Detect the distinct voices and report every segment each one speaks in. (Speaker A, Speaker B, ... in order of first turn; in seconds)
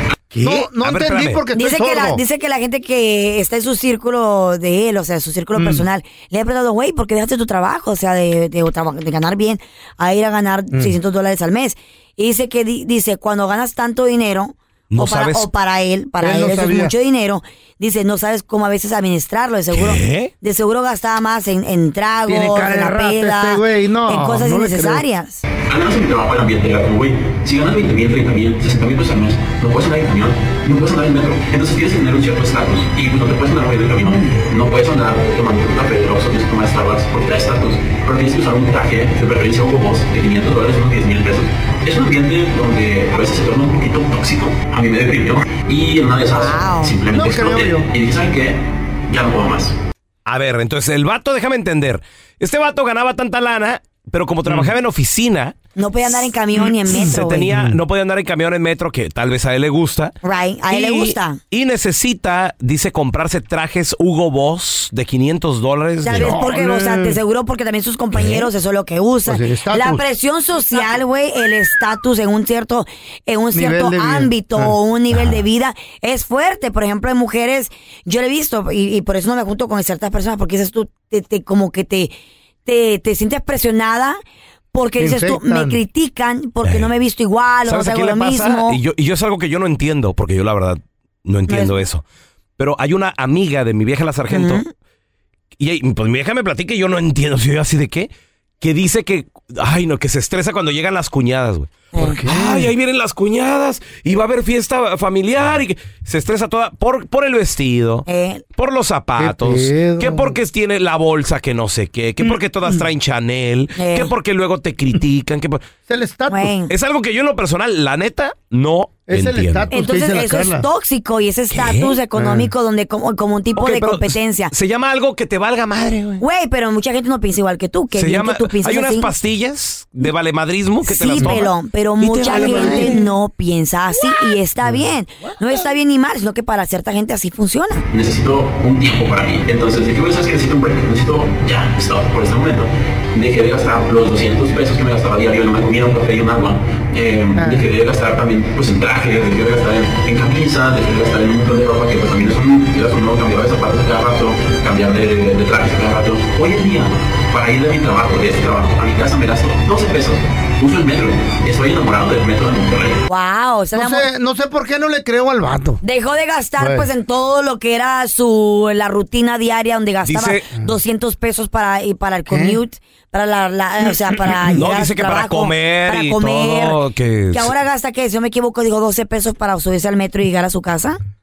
Speaker A: 0.3-1.4, 14.9-15.5, 19.7-20.3, 50.2-55.5, 56.9-60.1, 60.7-66.4, 86.6-86.9, 87.6-92.0, 92.6-94.6, 95.6-98.1, 98.6-108.0, 108.6-115.6, 116.7-119.7, 121.5-122.0, 123.5-126.2, 127.9-133.0, 170.0-170.5, 174.5-177.5
Speaker B: 0.4-2.2, 5.5-5.8, 16.2-16.9, 22.3-25.0, 47.1-47.9, 56.8-57.8, 66.1-67.2, 69.2-70.0, 73.5-74.8, 85.0-85.8, 102.0-102.7, 109.2-110.3, 115.9-116.5, 119.1-120.7, 122.1-122.5, 132.2-133.0, 147.3-147.7, 163.7-165.8, 166.6-166.9, 172.3-172.6, 174.3-174.6
Speaker C: 1.5-25.4, 46.3-46.9, 55.8-57.5, 60.2-61.4, 66.0-82.1, 82.6-84.2, 84.7-88.8, 91.5-91.8, 94.3-94.7, 108.0-108.4, 113.8-114.1, 116.3-116.7, 119.7-124.5, 126.2-129.1, 130.8-137.8, 163.1-164.1, 165.8-176.8, 177.3-181.0
Speaker D: 25.7-49.7, 137.9-163.0